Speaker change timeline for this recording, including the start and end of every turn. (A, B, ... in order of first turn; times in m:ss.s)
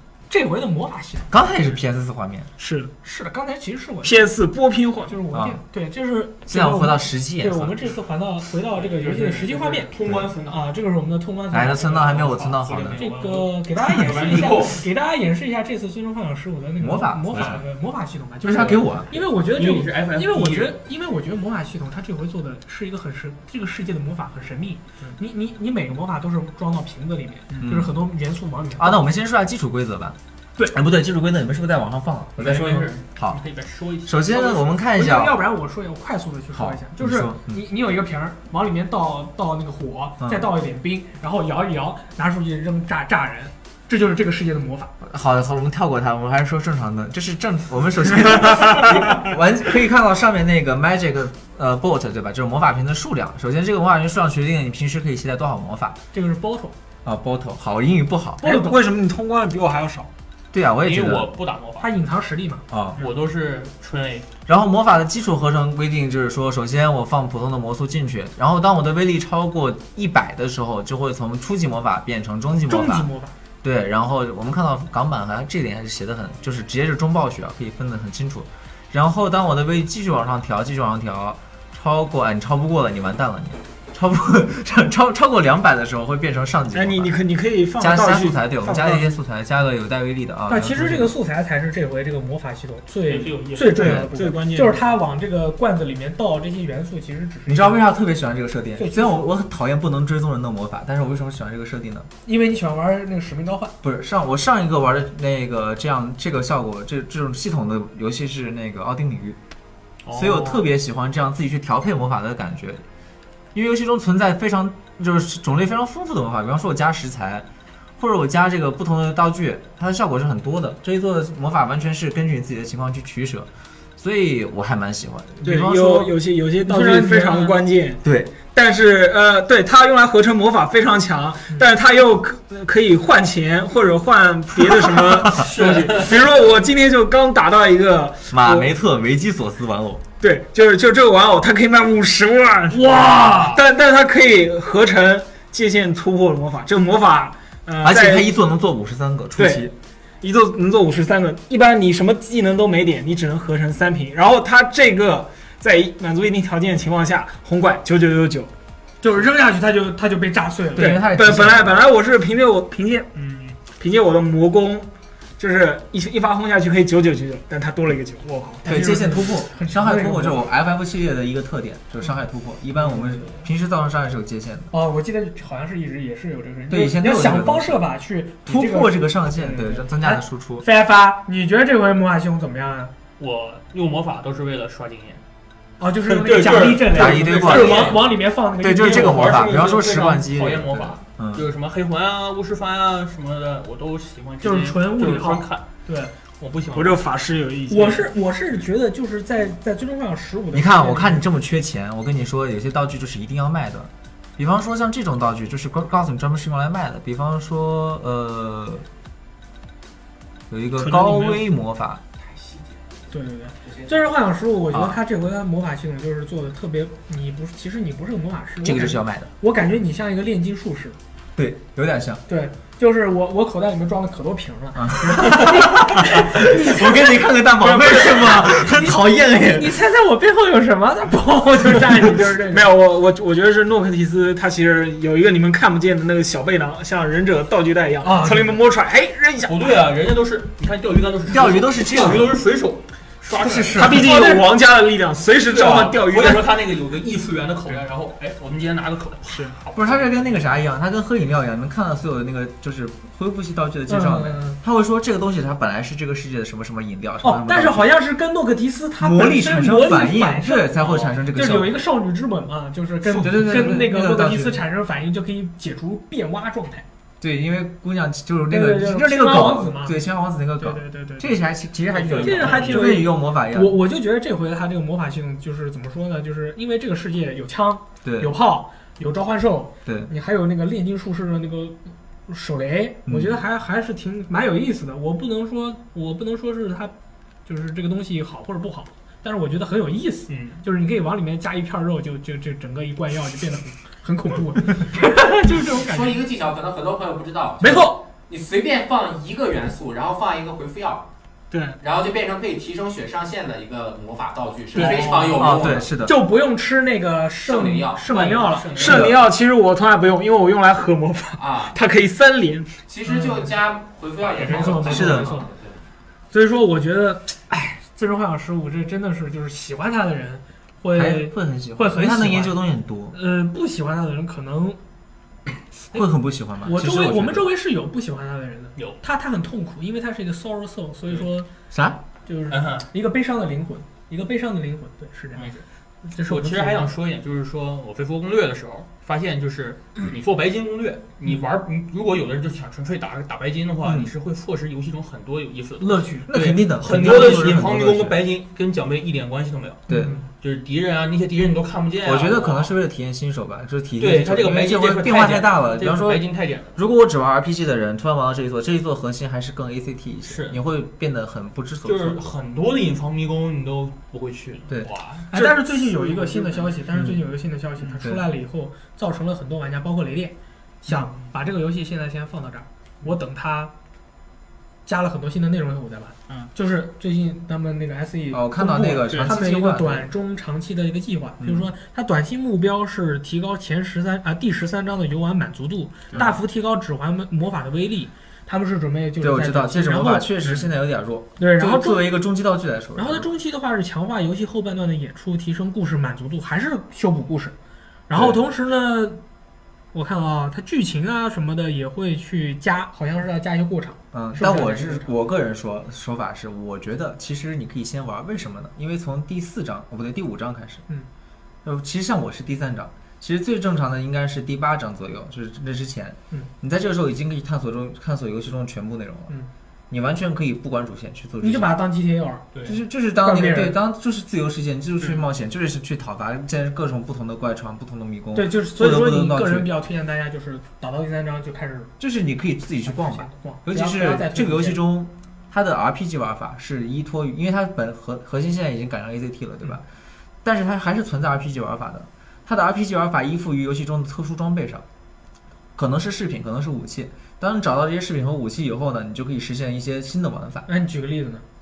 0:00.3-0:01.3 A
0:01.3-0:02.5 B
0:02.6-0:02.9 C
0:03.0-0:04.3 A
0:04.0-0:05.2 C
0:05.1-0:09.9 A
0:05.3-0:05.6 B
0:06.5-0:07.8 B
0:08.7-0:10.6 D
0:10.5-0:12.1 A
0:11.5-0:13.0 B
0:11.8-0:14.9 D
0:12.9-0:29.1 A
0:16.8-0:17.6 B
0:18.4-0:19.1 B
0:19.4-0:20.8 D
0:27.6-0:27.9 B
0:28.8-0:30.2 B
0:30.7-0:33.4 B
0:32.4-0:34.6 D
0:34.0-0:35.4 B
0:34.4-0:44.9 A
0:36.5-0:37.6 B
0:40.2-0:40.5 B
0:45.0-0:56.0 B
0:56.1-0:56.7 A
0:57.0-0:58.5 B
0:58.4-1:00.1 C
0:58.4-0:58.8 A
1:00.5-1:01.3 B
1:00.8-1:01.9 D
1:01.8-1:02.6 A
1:02.7-1:03.0 B
1:03.0-1:04.3 D
1:04.5-1:13.1 B
1:12.7-1:13.4 A
1:13.6-1:27.2 B
1:26.7-1:29.2 C
1:27.8-1:31.1 B
1:30.5-1:37.8 A
1:33.1-1:33.8 D
1:33.7-1:34.8 C
1:33.8-1:34.1 B
1:37.5-1:42.1 B
1:38.8-1:39.3 A
1:42.2-1:43.8 A
1:43.8-1:49.4 B
1:50.0-1:50.6 D
1:50.1-1:52.8 B
1:53.5-1:57.5 B
1:58.0-2:06.1 B
2:05.4-2:18.7 C
2:06.6-2:07.6 A
2:08.0-2:08.4 B
2:15.4-2:16.3 D
2:18.3-2:20.0 B
2:20.2-2:28.3 C
2:22.7-2:23.6 A
2:22.9-2:23.6 D
2:27.8-2:29.7 B
2:29.4-2:38.5 C
2:39.0-2:41.0 A
2:40.8-2:41.9 B
2:40.8-2:48.7 C
2:48.6-2:54.7 B
2:48.6-2:50.5 A
2:52.8-2:53.4 A
2:54.7-3:02.9 A
2:56.7-2:57.8 B
2:58.5-3:00.7 B
3:03.2-3:05.2 D
3:05.8-3:09.6 A
3:06.1-3:08.1 D
3:06.9-3:08.0 B
3:08.6-3:11.4 B
3:08.8-3:15.7 D
3:14.4-3:16.1 A
3:16.4-3:17.1 D
3:16.7-3:18.1 C
3:17.7-3:21.2 A
3:20.5-3:28.9 B
3:30.5-3:32.0 B
3:30.8-3:31.4 C
3:32.4-3:32.6 E
3:33.1-3:41.0 A
3:34.7-3:35.0 B
3:38.6-3:39.3 B
3:41.4-3:42.2 B
3:42.3-3:52.7 A
3:44.8-3:49.8 B
3:52.4-3:59.7 C
3:58.0-3:58.6 A
3:59.4-4:04.4 D
4:01.3-4:02.4 B
4:03.3-4:04.2 B
4:03.7-4:06.5 C
4:04.0-4:04.5 A
4:05.4-4:10.3 D
4:09.3-4:09.6 C
4:09.8-4:18.0 B
4:13.9-4:14.6 A
4:17.2-4:20.8 A
4:19.0-4:21.8 B
4:20.8-4:21.2 D
4:21.3-4:26.8 A
4:23.0-4:24.6 B
4:27.2-4:33.8 B
4:28.5-4:30.0 A
4:30.6-4:31.4 A
4:31.9-4:32.9 D
4:32.1-4:46.9 A
4:38.0-4:38.4 B
4:39.8-4:40.1 B
4:43.1-4:43.4 B
4:47.5-4:56.2 A
4:50.3-4:50.6 D
4:55.7-5:01.1 E
4:57.6-4:58.0 A
5:01.5-5:01.8 C
5:01.8-5:05.9 E
5:04.8-5:05.4 C
5:04.8-5:05.3 D
5:05.4-5:06.2 B
5:06.0-5:09.1 A
5:07.5-5:08.0 E
5:08.1-5:09.2 D
5:08.8-5:12.8 C
5:08.9-5:09.1 B
5:11.4-5:11.8 E
5:12.9-5:15.8 E
5:13.1-5:13.5 A
5:14.2-5:15.5 A
5:14.8-5:15.4 B
5:16.3-5:22.6 A
5:20.9-5:23.2 B
5:23.1-5:24.8 A
5:25.9-5:27.5 B
5:26.6-5:31.5 A
5:31.7-5:32.0 B
5:32.3-5:36.9 A
5:32.5-5:32.9 D
5:35.4-5:35.6 D
5:36.2-5:49.9 D
5:43.8-5:44.1 B
5:45.8-5:46.3 A
5:46.3-5:48.2 B
5:46.9-5:47.5 A
5:49.9-5:50.2 B
5:49.9-5:50.3 A
5:50.4-5:52.7 D
5:52.0-5:56.2 B
5:54.0-5:56.8 D
5:56.8-6:02.3 B
6:00.2-6:00.6 D
6:01.8-6:05.5 D
6:04.7-6:05.5 B
6:05.3-6:13.7 A
6:06.0-6:06.7 D
6:14.9-6:30.7 A
6:18.3-6:20.1 B
6:21.4-6:21.7 B
6:29.2-6:33.3 B
6:31.4-6:32.2 A
6:33.0-6:37.6 A
6:38.1-6:39.2 A
6:38.1-6:38.4 B
6:39.9-6:45.1 A
6:44.1-6:50.8 B
6:51.6-6:59.3 B
6:59.9-7:01.7 B
7:01.4-7:02.5 A
7:02.6-7:09.7 B
7:03.2-7:03.8 A
7:08.4-7:11.9 A
7:12.0-7:19.8 B
7:12.9-7:14.8 A
7:20.4-7:24.8 B
7:25.8-7:30.7 B
7:30.7-7:31.4 A